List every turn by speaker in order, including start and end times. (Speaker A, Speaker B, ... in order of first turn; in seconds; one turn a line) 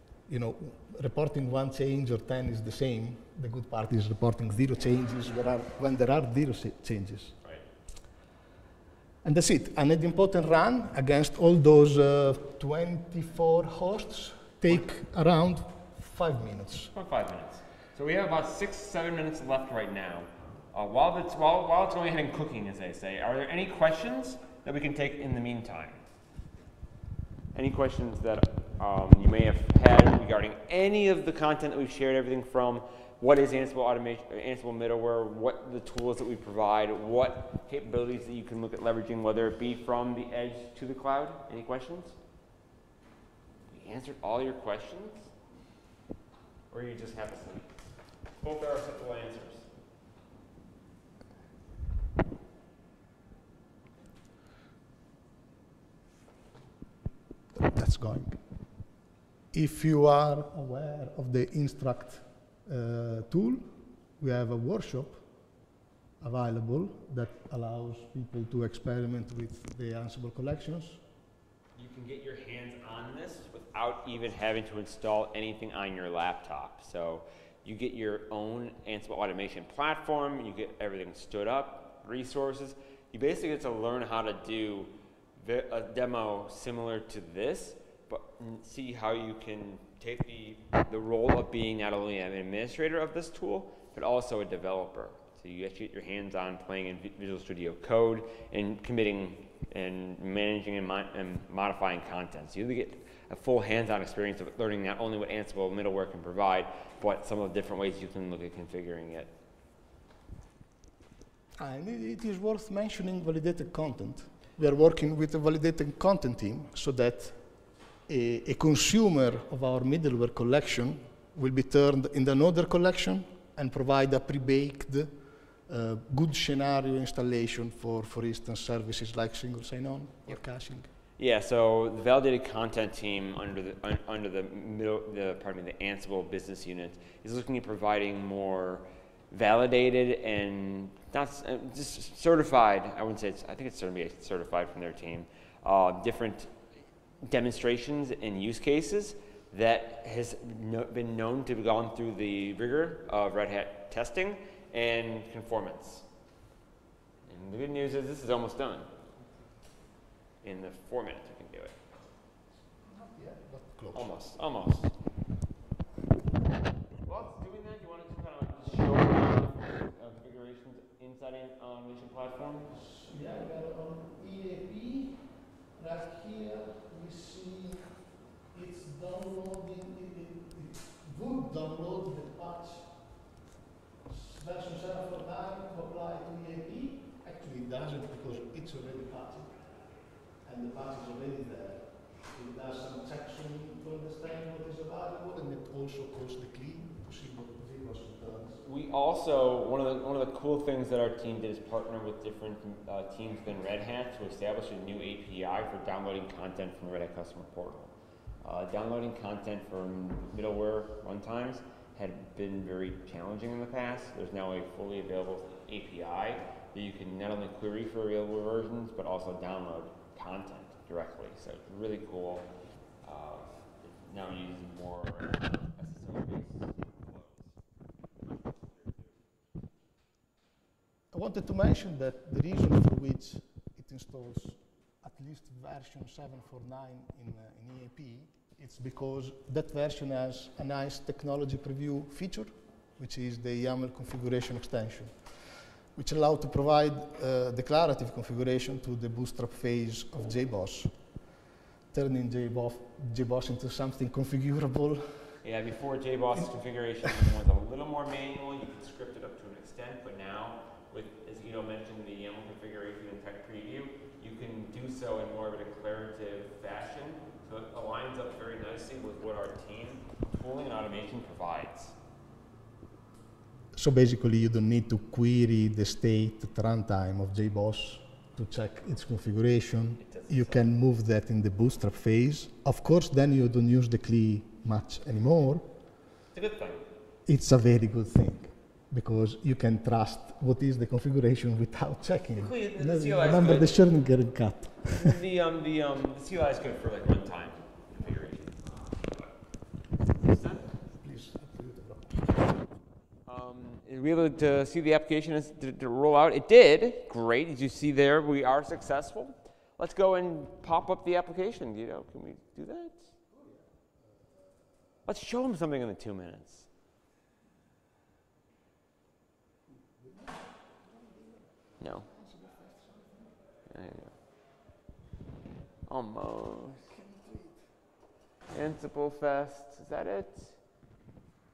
Speaker A: 0.3-7.4
Speaker A: 9.2-16.9
Speaker B: 16.9-26.0
Speaker B: 27.5-42.1
Speaker B: 43.7-45.3
Speaker B: 46.7-47.7
Speaker B: 48.4-49.7
Speaker A: 57.5-58.4
Speaker A: 59.5-63.6
Speaker A: 64.2-65.2
Speaker A: 66.2-71.0
Speaker B: 71.8-109.3
Speaker A: 111.6-117.4
Speaker A: 118.1-125.1
Speaker A: 125.7-130.9
Speaker B: 131.2-146.5
Speaker B: 147.2-156.0
Speaker B: 157.3-158.9
Speaker B: 160.4-161.8
Speaker A: 162.8-164.1
Speaker B: 163.9-164.9
Speaker B: 167.0-172.7
Speaker A: 172.7-175.2
Speaker A: 175.8-177.8
Speaker A: 178.5-182.9
Speaker A: 184.1-189.6
Speaker A: 190.4-198.6
Speaker B: 198.6-207.9
Speaker B: 208.4-222.5
Speaker B: 223.0-227.2
Speaker A: 231.1-245.3
Speaker A: 245.9-250.9
Speaker A: 251.9-255.0
Speaker B: 255.4-271.9
Speaker A: 273.7-285.7
Speaker B: 280.0-280.6
Speaker B: 286.3-286.8
Speaker A: 287.2-295.2
Speaker B: 292.4-293.9
Speaker B: 294.9-299.2
Speaker B: 300.2-300.7
Speaker A: 300.9-302.5
Speaker B: 303.3-313.1
Speaker A: 313.3-314.6
Speaker B: 315.1-316.6
Speaker A: 319.7-323.4
Speaker B: 321.8-322.1
Speaker B: 323.7-324.1
Speaker B: 325.9-326.9
Speaker A: 326.9-327.6
Speaker B: 328.5-330.6